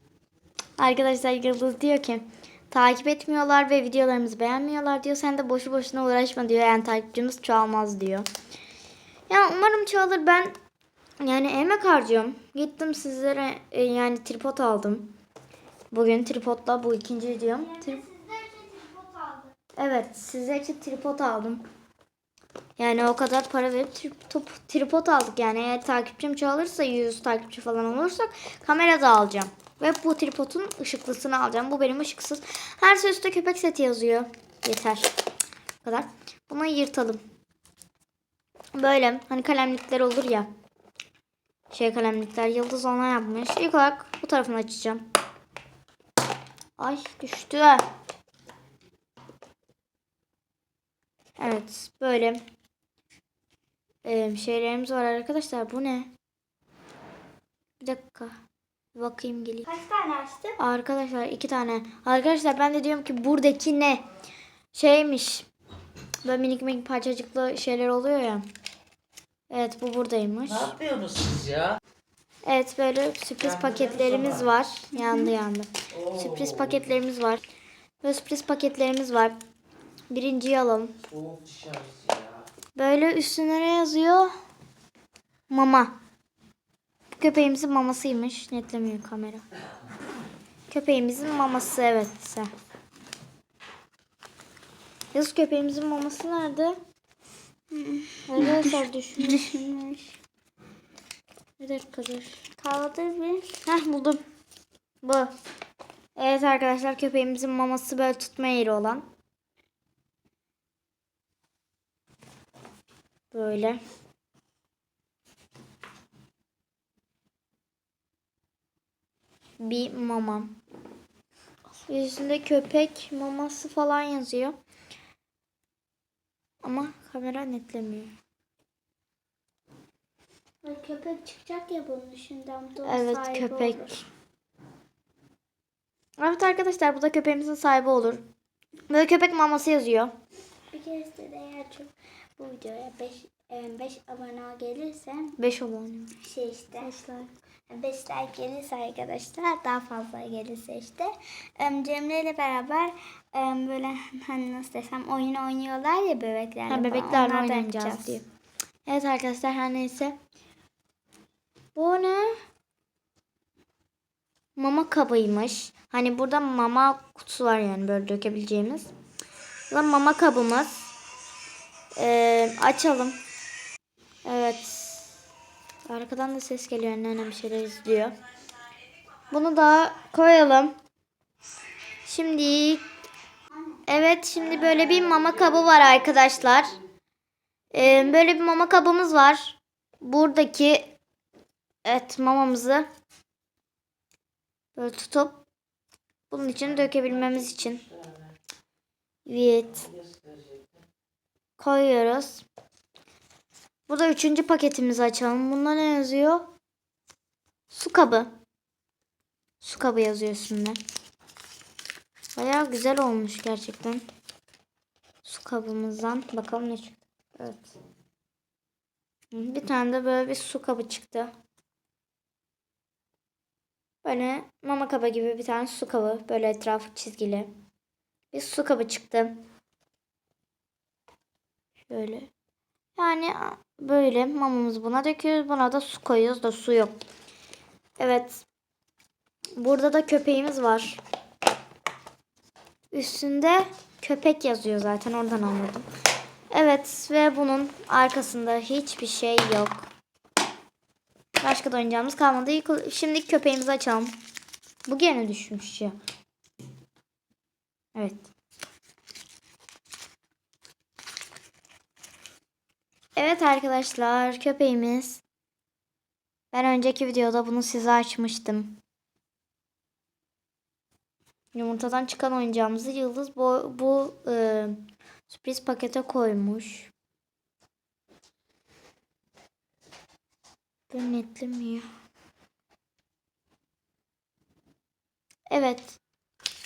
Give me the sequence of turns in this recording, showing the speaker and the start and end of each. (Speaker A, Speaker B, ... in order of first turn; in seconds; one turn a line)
Speaker A: 0.8-8.3
Speaker A: 9.3-10.5
Speaker A: 11.2-15.1
Speaker A: 15.9-18.0
Speaker B: 17.7-19.5
Speaker A: 19.8-21.6
Speaker A: 22.8-35.2
Speaker A: 35.8-37.2
Speaker A: 38.7-40.5
Speaker A: 41.7-45.0
Speaker A: 46.8-47.9
Speaker A: 51.4-52.4
Speaker A: 54.0-56.1
Speaker A: 57.8-58.4
Speaker A: 58.9-59.7
Speaker B: 59.7-60.6
Speaker A: 60.6-64.0
Speaker A: 64.7-65.5
Speaker A: 66.2-68.5
Speaker A: 69.5-70.8
Speaker C: 70.7-71.8
Speaker A: 72.4-77.4
Speaker B: 74.9-75.3
Speaker A: 78.0-79.3
Speaker A: 80.1-81.0
Speaker C: 81.1-82.4
Speaker A: 82.8-84.3
Speaker A: 85.5-86.0
Speaker A: 87.2-89.4
Speaker A: 90.7-92.5
Speaker A: 95.1-96.8
Speaker B: 97.7-100.2
Speaker A: 98.3-99.6
Speaker A: 101.6-102.4
Speaker B: 102.6-103.6
Speaker A: 103.6-104.2
Speaker A: 105.0-105.3
Speaker A: 106.2-109.0
Speaker A: 113.3-113.8
Speaker A: 119.6-120.6
Speaker A: 121.8-124.5
Speaker A: 126.6-128.1
Speaker B: 130.6-134.0
Speaker A: 132.8-134.0
Speaker A: 136.2-138.2
Speaker A: 138.9-140.1
Speaker B: 140.7-145.3
Speaker A: 145.4-146.1
Speaker B: 146.2-158.2
Speaker A: 156.7-158.2
Speaker A: 158.8-160.2
Speaker A: 161.8-162.4
Speaker A: 164.6-168.9
Speaker A: 169.7-170.9
Speaker A: 171.9-173.2
Speaker A: 174.2-175.1
Speaker A: 175.9-178.2
Speaker A: 179.3-180.7
Speaker A: 182.0-182.8
Speaker A: 183.9-186.8
Speaker A: 187.7-190.9
Speaker A: 191.8-192.9
Speaker A: 194.8-195.4
Speaker A: 196.3-197.9
Speaker A: 199.2-199.9
Speaker C: 200.0-200.6
Speaker A: 201.6-202.4
Speaker A: 203.9-206.5
Speaker A: 207.7-208.3
Speaker A: 209.6-210.8
Speaker A: 212.3-214.0
Speaker A: 215.2-217.7
Speaker A: 219.3-221.3
Speaker A: 224.0-227.5
Speaker A: 228.3-229.4
Speaker A: 231.9-232.3
Speaker A: 232.9-236.9
Speaker A: 238.0-238.4
Speaker A: 239.6-241.0
Speaker A: 242.9-245.9
Speaker A: 246.5-249.8
Speaker A: 251.4-254.1
Speaker A: 254.9-255.9
Speaker A: 257.9-258.3
Speaker A: 263.1-265.2
Speaker A: 266.5-268.8
Speaker A: 271.5-276.9
Speaker A: 280.9-281.9
Speaker A: 285.5-286.0